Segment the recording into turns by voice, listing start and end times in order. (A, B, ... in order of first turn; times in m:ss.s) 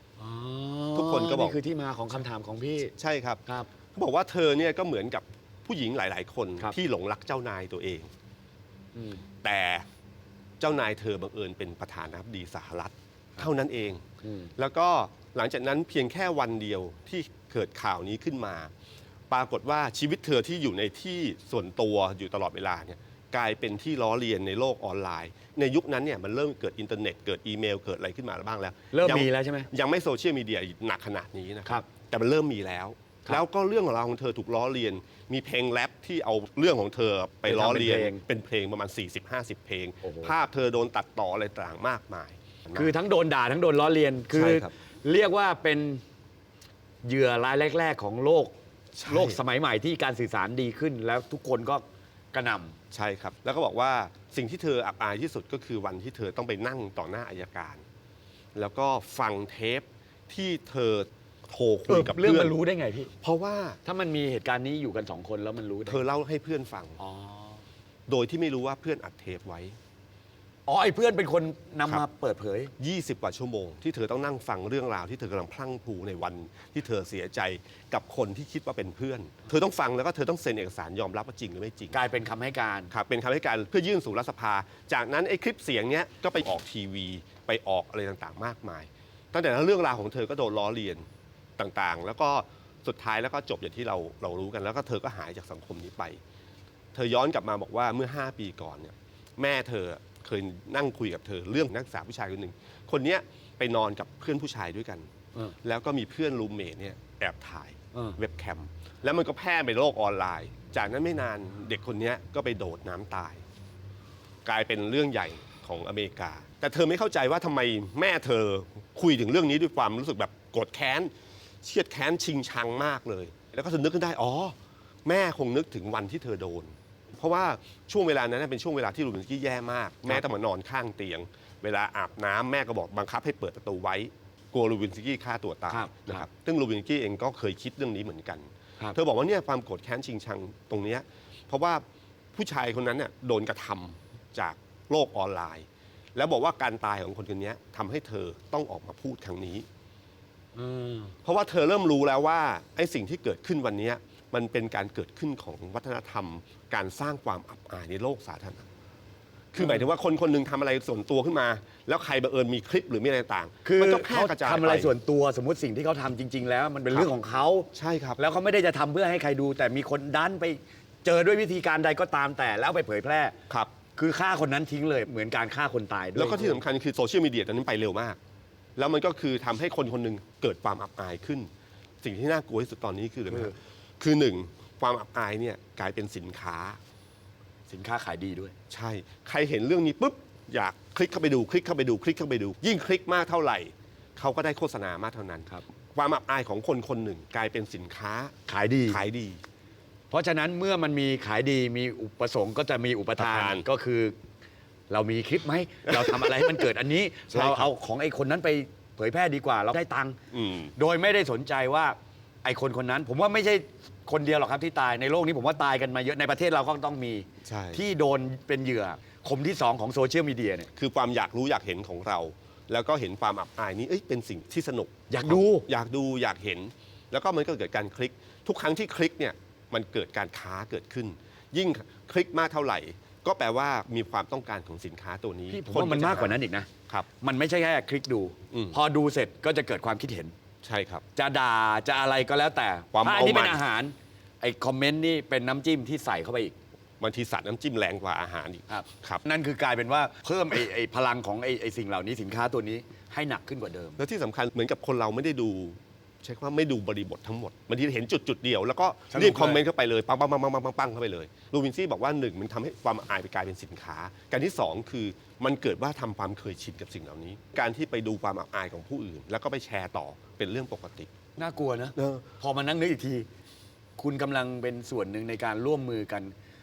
0:00.2-0:02.9 A
0:00.9-0:01.6 B
0:03.0-0:03.4 B
0:03.9-0:08.1 B
0:08.9-0:09.2 A
0:09.4-0:09.9 B
0:10.6-0:14.0 B
0:14.2-0:14.5 A
0:14.6-0:18.7 B
0:19.3-0:42.9 B
0:28.9-0:29.7 A
0:37.4-0:38.2 A
0:40.0-0:40.3 A
0:42.7-0:46.0 A
0:44.3-0:44.7 B
0:47.0-0:48.5 A
0:48.9-0:49.4 B
0:49.1-0:52.8 A
0:52.9-0:57.8 B
0:58.5-1:02.6 B
1:01.9-1:03.1 A
1:03.2-1:03.8 B
1:03.8-1:06.0 A
1:05.9-1:07.0 B
1:07.0-1:07.6 A
1:08.1-1:09.8 B
1:10.7-1:12.7 A
1:12.8-1:22.0 B
1:21.9-1:22.9 A
1:22.9-1:31.0 B
1:31.6-1:36.2 B
1:36.9-1:45.1 B
1:45.6-1:53.4 B
1:54.4-2:29.6 B
2:15.7-2:16.3 A
2:30.5-2:31.1 A
2:31.2-2:38.6 B
2:39.5-2:44.9 B
2:39.6-2:39.8 A
2:43.6-2:53.4 A
2:47.7-2:48.2 B
2:53.9-2:56.6 A
2:56.2-2:58.2 B
2:58.8-3:01.5 B
3:02.0-3:06.8 B
3:03.3-3:03.5 A
3:07.7-3:08.5 A
3:08.7-3:18.3 B
3:18.5-3:19.0 A
3:18.9-3:19.4 B
3:20.1-3:24.2 A
3:23.2-3:23.6 B
3:24.9-3:30.2 A
3:25.9-3:26.6 B
3:27.3-3:27.7 B
3:30.3-3:30.7 B
3:30.7-3:40.7 A
3:37.4-3:37.8 B
3:40.7-3:57.1 B
3:45.1-3:45.6 A
3:55.5-4:00.3 A
3:58.5-3:58.8 B
4:00.6-4:01.0 B
4:01.1-4:06.5 A
4:02.9-4:03.6 B
4:07.0-4:09.2 B
4:08.7-4:14.0 A
4:14.0-4:31.1 B
4:19.1-4:19.6 A
4:31.4-4:33.3 A
4:32.0-4:32.3 B
4:34.0-4:36.3 A